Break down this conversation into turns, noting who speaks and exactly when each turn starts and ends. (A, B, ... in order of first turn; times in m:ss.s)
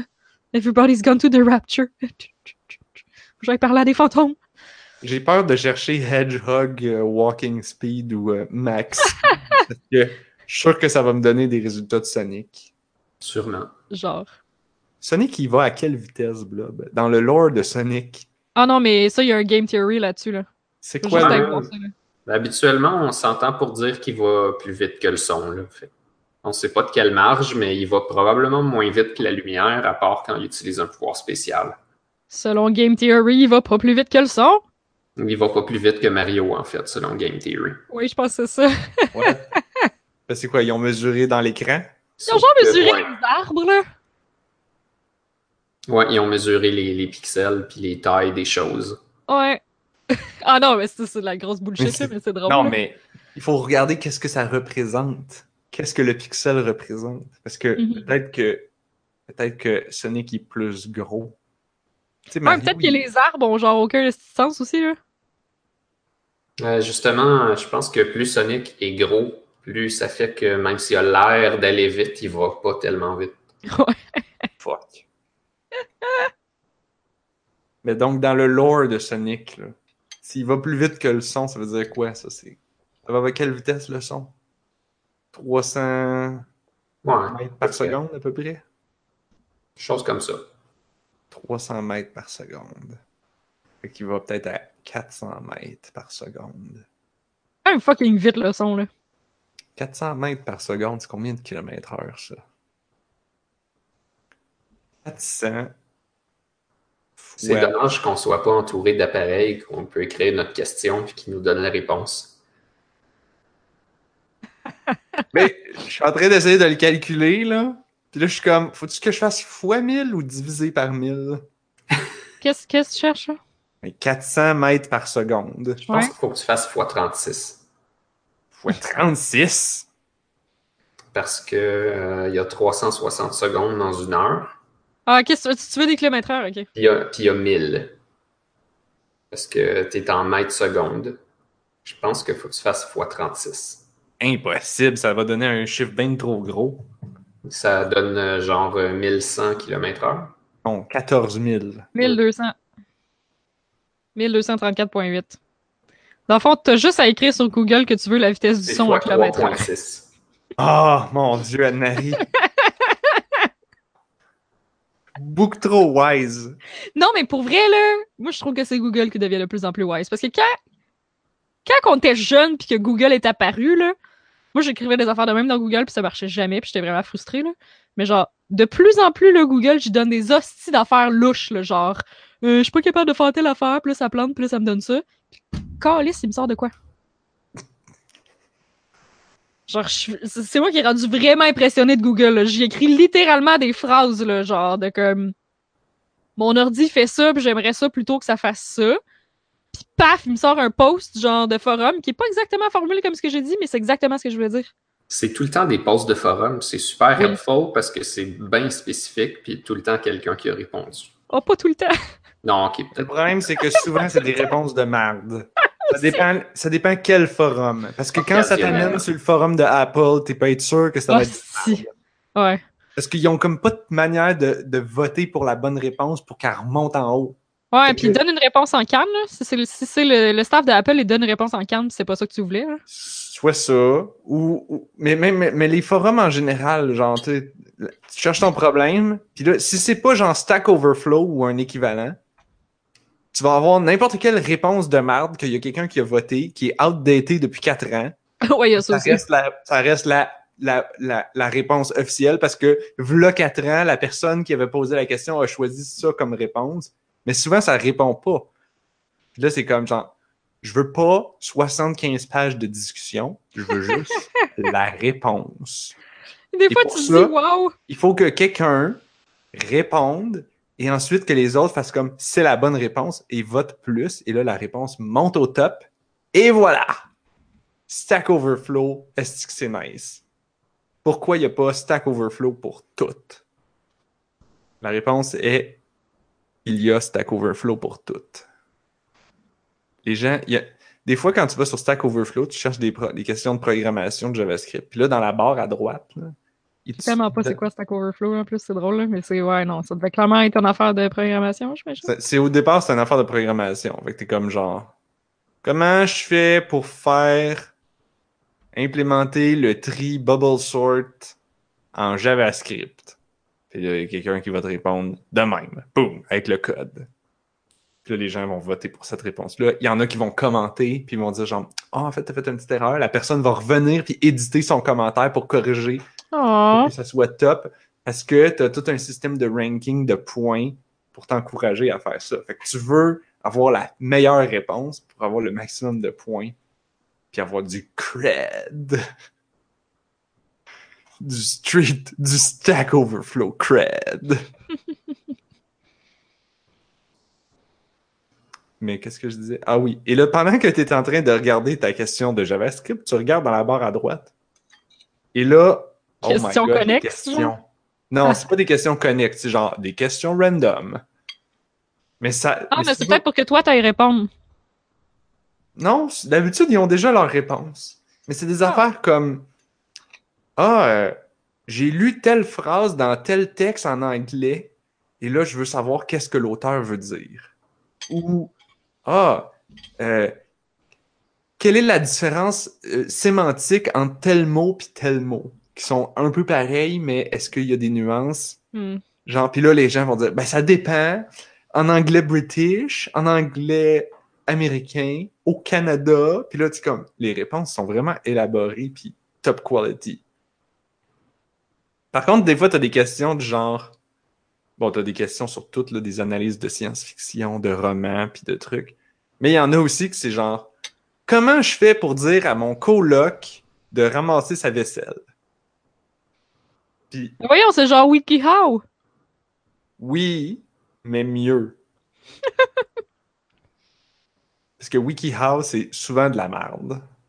0:00.5-0:04.4 A
0:05.0-0:12.7 B
0:13.2-0:13.7 C
0:13.9-0:14.3 A
0:15.0-0:18.3 B
0:18.6-0:20.5 A
0:20.8-0:21.7 B
0:21.0-0:21.9 A
0:21.2-0:21.7 C
0:22.3-0:25.9 C
0:26.4-0:31.8 C
0:32.3-0:34.6 A
0:35.2-0:37.8 C
0:37.9-0:39.9 A
0:39.1-0:39.4 B
0:40.3-0:42.1 B
0:42.2-0:43.1 C
0:42.3-0:43.8 A
0:45.9-0:49.0 C
0:49.3-0:49.6 A
0:50.4-0:52.8 A
0:51.8-0:58.7 B
0:57.8-0:58.1 A
0:59.3-1:01.4 B
1:02.3-1:03.0 B
1:02.4-1:05.0 A
1:06.6-1:13.4 C
1:13.7-1:14.4 A
1:14.6-1:15.0 B
1:16.0-1:16.3 A
1:17.8-1:24.3 B
1:25.3-1:26.5 B
1:27.0-1:28.0 C
1:27.3-1:28.6 B
1:29.8-1:30.4 C
1:31.3-1:33.0 B
1:33.8-1:36.9 B
1:37.7-1:38.9 A
1:39.8-1:42.4 B
1:45.0-1:45.7 B
1:47.2-1:47.7 B
1:47.4-1:52.4 C
1:55.3-2:01.4 B
2:02.4-2:03.4 A
2:03.8-2:05.8 B
2:05.9-2:07.6 C
2:08.6-2:09.9 B
2:11.1-2:14.6 C
2:15.1-2:16.7 A
2:16.8-2:18.0 C
2:19.3-2:21.2 C
2:21.8-2:23.8 C
2:24.2-2:26.8 B
2:27.4-2:30.4 C
2:30.6-2:31.9 B
2:32.0-2:32.6 A
2:34.2-2:35.4 A
2:36.3-2:39.6 A
2:38.7-2:40.1 C
2:40.6-2:42.2 B
2:42.6-2:43.2 A
2:45.2-2:46.6 B
2:47.0-2:50.6 A
2:51.6-2:54.0 A
2:54.5-3:05.0 A
3:05.8-3:06.7 A
3:09.7-3:15.4 A
3:16.4-3:19.0 A
3:19.7-3:24.7 A
3:25.1-3:31.1 C
3:31.3-3:31.9 A
3:32.4-3:33.4 C
3:33.0-3:41.9 B
3:35.8-3:36.3 A
3:38.2-3:39.0 C
3:38.6-3:39.0 A
3:41.1-3:41.8 A
3:42.4-3:42.6 A
3:43.0-3:48.2 B
3:47.7-3:52.8 A
3:52.9-4:02.2 B
4:03.3-4:08.2 B
4:08.4-4:09.2 A
4:08.8-4:18.5 B
4:19.4-4:26.0 B
4:23.9-4:24.5 A
4:26.5-4:27.7 A
4:26.7-4:27.3 B
4:27.9-4:37.0 B
4:37.9-4:40.2 B
4:41.0-4:43.4 B
4:44.8-4:45.8 B
4:46.6-4:48.5 B
4:50.0-4:57.6 B
4:57.0-5:02.1 A
5:02.0-5:04.9 B
5:05.6-5:07.7 B
5:08.7-5:11.4 B
5:11.9-5:13.2 B
5:13.7-5:17.1 B
5:18.0-5:26.0 B
5:26.3-5:26.9 A
5:26.7-5:36.6 B
5:37.3-5:39.0 B
5:41.2-5:44.4 B
5:48.8-5:54.3 B
5:55.3-6:01.0 B
5:56.2-5:57.5 A
6:02.2-6:03.2 B
6:02.7-6:04.3 A
6:05.8-6:09.5 B
6:10.6-6:11.2 B
6:11.7-6:17.5 B
6:18.1-6:18.5 B
6:19.1-6:20.3 B
6:21.6-6:28.6 B
6:28.7-6:29.0 A
6:29.3-6:40.2 B
6:42.1-6:44.0 B
6:44.8-6:50.7 B
6:51.3-6:55.2 B
6:57.1-6:57.4 B
6:57.4-6:58.8 A
7:00.0-7:01.8 B
7:04.8-7:07.0 B